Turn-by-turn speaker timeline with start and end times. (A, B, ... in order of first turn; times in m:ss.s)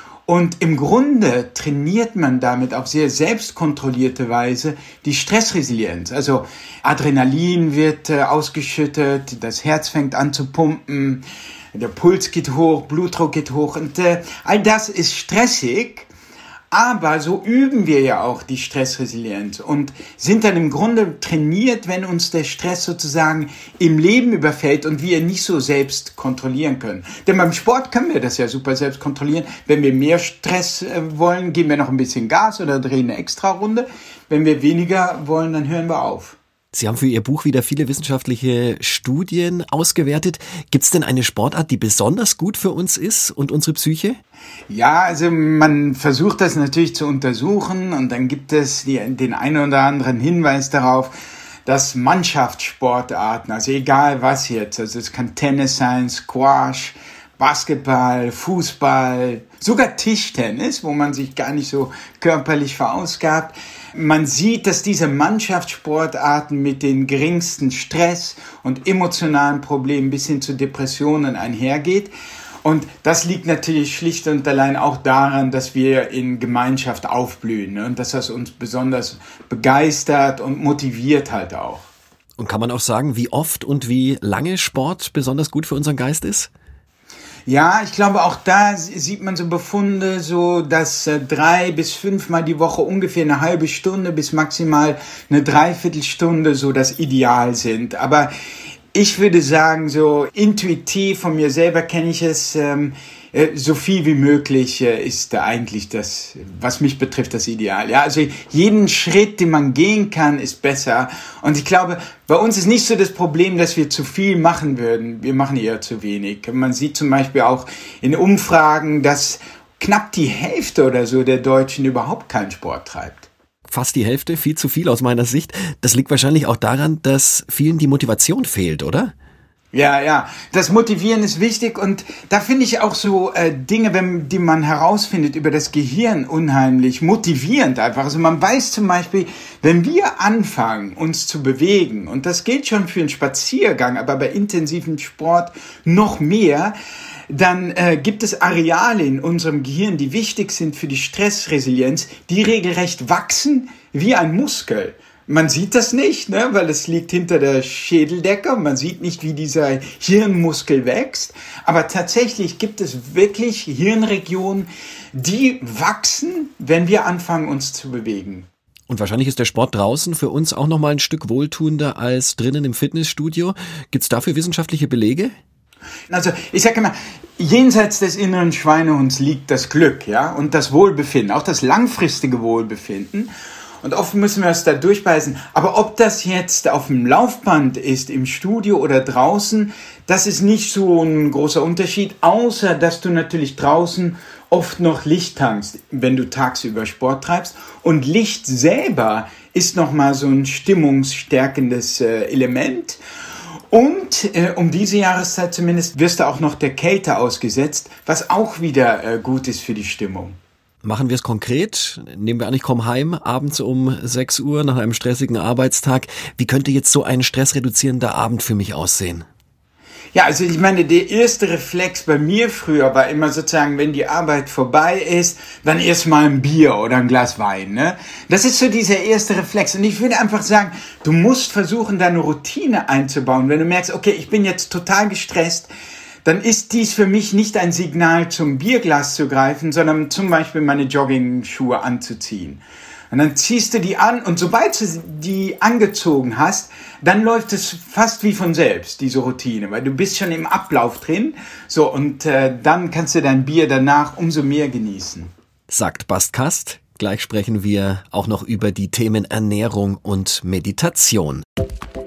0:00.3-0:16.1 A
0:16.7-0:36.4 A
0:36.7-0:44.2 B
0:44.7-0:51.1 A
0:51.6-1:12.1 A
1:12.6-1:21.9 A
1:22.4-1:26.5 B
1:27.5-1:38.3 A
1:38.9-2:03.3 A
2:03.7-2:09.1 B
2:09.7-2:26.7 A
2:27.3-2:48.5 A
2:48.9-2:55.3 B
2:56.1-3:03.3 A
3:03.8-3:23.0 A
3:23.7-3:30.4 A
3:30.8-3:39.2 B
3:40.1-3:55.7 A
3:56.2-4:15.3 A
4:15.7-4:21.4 B